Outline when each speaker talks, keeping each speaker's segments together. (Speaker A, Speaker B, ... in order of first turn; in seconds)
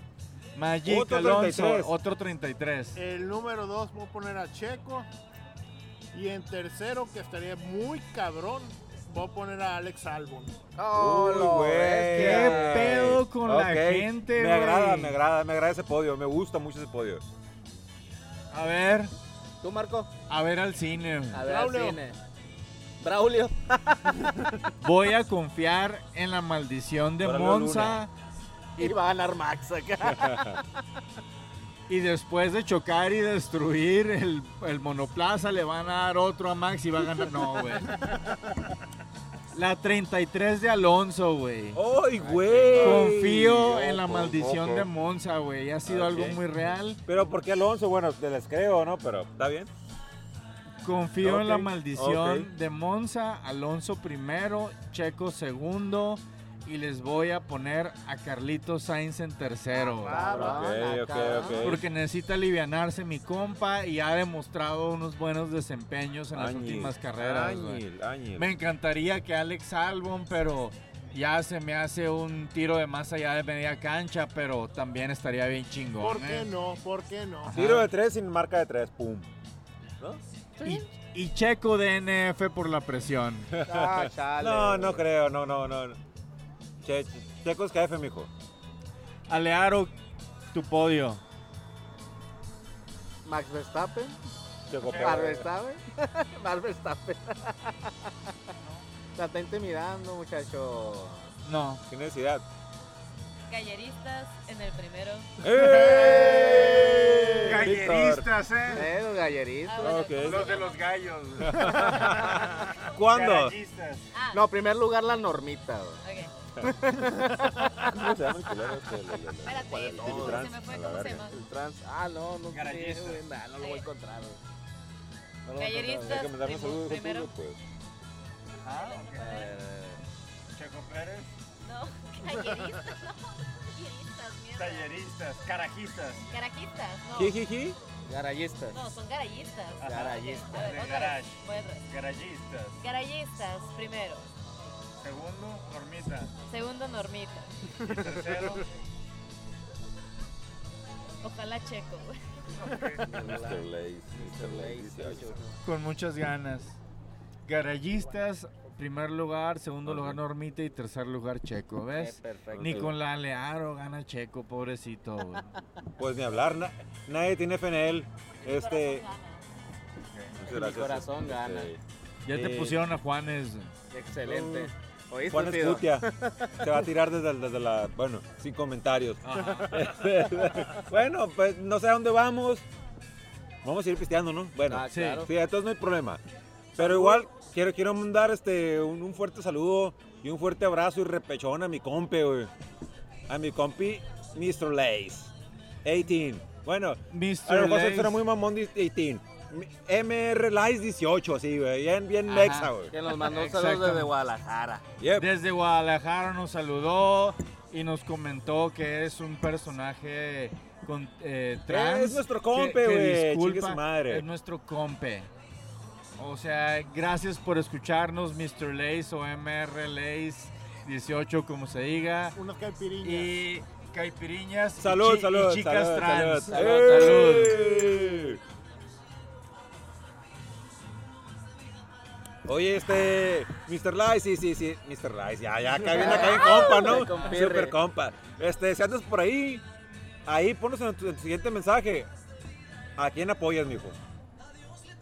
Speaker A: 0.6-3.0, 12.1-15.2, 18.5-19.1, 20.3-21.4, 24.8-28.1, 31.9-38.0, 39.5-41.8, 42.8-47.0, 50.8-60.4, 61.6-67.8, 68.4-76.5, 77.4-77.9, 80.6-83.5, 89.3-89.9, 90.5-91.2, 94.7-95.4, 101.4-101.8, 107.4-108.9, 110.2-114.0, 122.5-123.2, 128.6-129.5, 130.5-131.3, 134.6-136.3, 139.8-142.8, 145.0-146.3, 147.8-148.7, 152.5-153.1, 155.6-156.8, 157.5-165.6, 170.1-170.4, 172.2-173.7, 179.2-179.9, 184.9-185.3, 197.1-198.2, 202.3-204.1, 205.2-215.3, 216.2-222.4, 223.0-227.6
Speaker B: 0.8-1.9, 10.9-17.3, 27.2-28.0, 30.1-30.6, 41.8-44.9, 45.9-46.4, 47.1-49.7, 51.2-52.5, 60.2-61.9, 66.3-68.5, 77.5-79.3, 83.5-86.0, 86.8-88.3, 94.7-95.5, 101.9-102.4, 105.4-108.3, 109.8-110.5, 111.4-113.5, 117.8-121.3, 125.9-127.6, 137.2-137.8, 153.1-155.4, 159.8-160.2, 162.5-162.9, 166.0-169.1, 170.3-171.8, 172.3-172.8, 174.3-174.7, 175.3-176.1, 176.6-182.7, 183.6-186.2, 186.8-192.5, 193.3-195.3, 195.8-202.9, 205.0-205.3, 211.7-214.3, 224.8-228.4, 232.4-239.6, 240.3-242.1, 243.0-244.0
Speaker C: 3.0-5.1, 6.1-10.6, 21.4-22.0, 60.0-60.8, 76.0-77.5, 105.5-107.6, 222.3-223.3
Speaker D: 10.8-12.9, 19.6-20.1, 21.3-22.2, 23.0-24.2, 28.8-30.6, 42.2-43.1, 59.7-61.7, 80.0-80.8, 83.7-85.0, 93.2-94.2, 95.0-98.3, 99.2-101.3, 108.7-110.1, 114.3-116.0, 116.6-118.1, 119.5-120.5, 121.3-124.4, 125.5-126.1, 129.2-130.0, 138.1-138.8, 139.8-140.6, 153.0-155.6, 162.0-162.9, 170.4-171.7, 173.9-176.8, 184.7-185.3, 186.8-187.2, 202.9-204.8, 226.5-228.4, 235.9-237.8
Speaker E: 103.5-105.3, 109.7-110.8, 114.1-114.4, 116.0-116.3, 119.4-121.4, 123.6-123.8, 125.5-127.3, 128.7-129.5, 131.6-134.9, 136.3-137.4, 138.7-141.8, 142.8-144.2, 146.5-147.8, 151.2-152.2, 168.4-169.4